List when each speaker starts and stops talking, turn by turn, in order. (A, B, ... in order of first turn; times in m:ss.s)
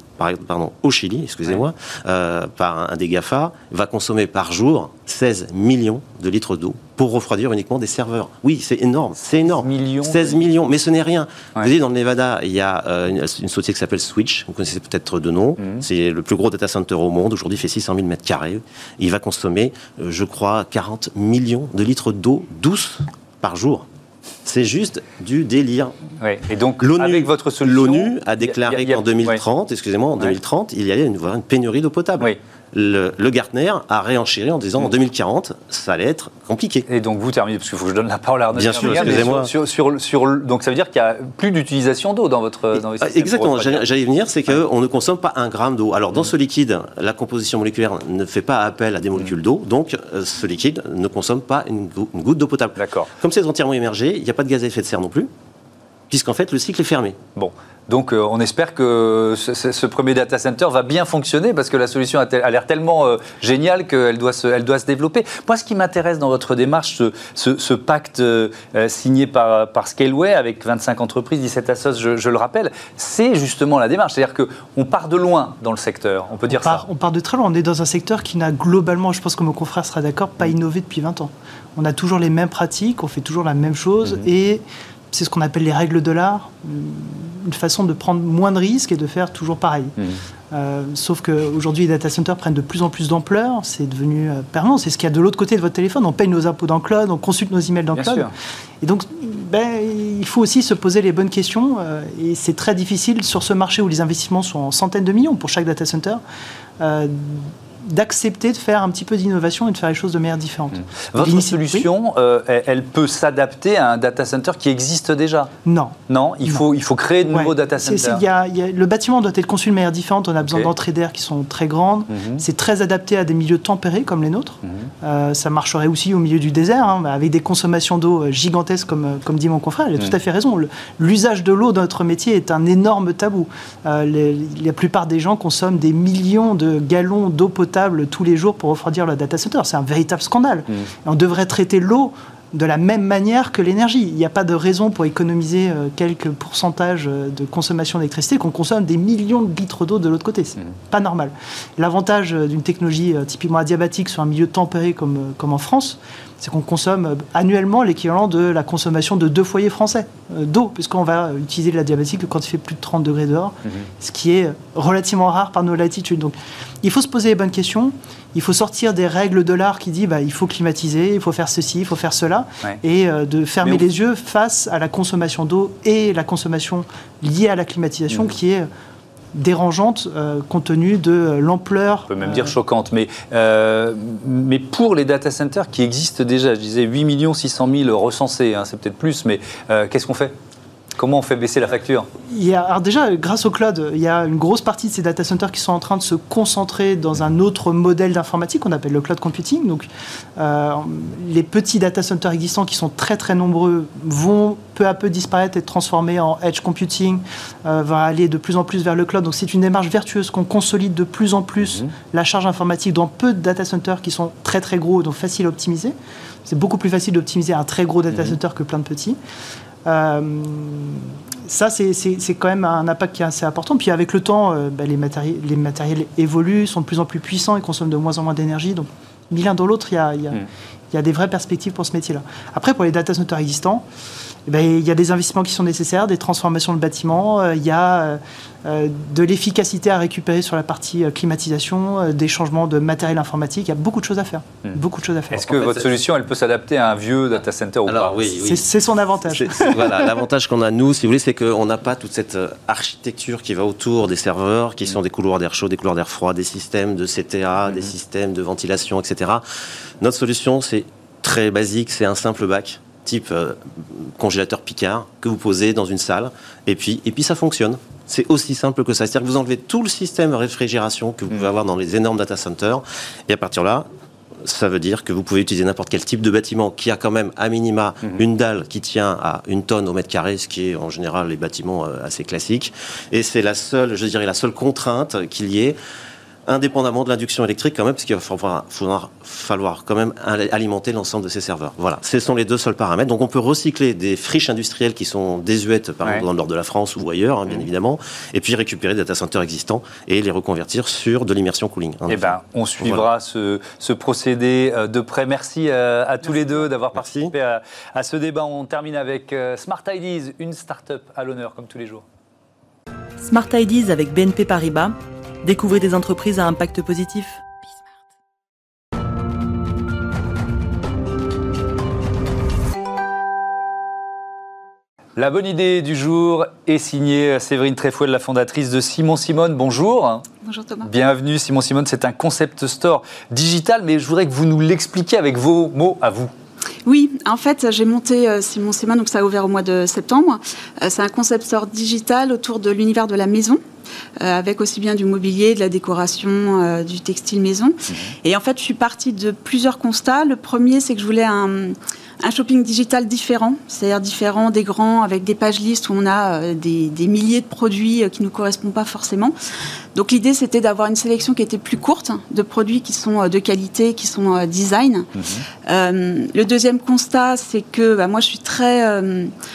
0:00.2-0:23.8 A
0:09.2-0:10.4 B
0:24.4-0:25.9 A
0:26.2-0:29.4 B
0:26.8-0:36.9 A
0:36.9-0:43.8 B
0:38.5-0:39.5 A
0:42.7-0:55.3 A
0:52.8-0:53.1 B
0:56.1-0:57.2 A
0:57.3-1:16.8 B
1:16.5-1:29.9 C
1:30.5-1:38.3 C
1:37.9-1:38.3 B
1:38.8-1:46.2 C
1:46.8-1:51.9 C
1:51.1-1:55.5 B
1:55.6-1:56.6 C
1:56.1-1:58.2 B
1:57.3-2:58.7 C
2:00.4-2:00.7 B
2:02.1-2:02.4 B
2:04.6-2:04.9 B
2:43.6-2:43.9 B
2:59.3-3:02.5 C
3:02.1-3:10.3 B
3:11.0-3:12.1 B
3:12.3-3:35.9 C
3:36.5-3:39.2 C
3:38.1-3:38.4 B
3:39.8-3:50.4 C
3:50.9-3:53.8 C
3:54.4-4:05.4 C
4:05.3-4:08.2 B
4:05.5-4:05.9 A
4:07.8-4:08.7 A
4:08.3-4:10.1 C
4:09.2-4:19.4 A
4:20.0-4:33.9 A
4:34.4-4:45.8 A
4:46.5-5:03.1 A
5:02.1-5:12.0 B
5:06.9-5:07.3 A
5:13.2-5:17.4 D
5:25.2-5:30.2 B
5:30.4-5:30.9 E
5:30.8-5:36.3 B
5:36.8-5:43.6 E
5:44.2-5:59.3 E
5:47.9-5:48.1 B
5:59.9-6:05.1 E
6:05.1-6:05.4 B
6:05.6-6:09.3 E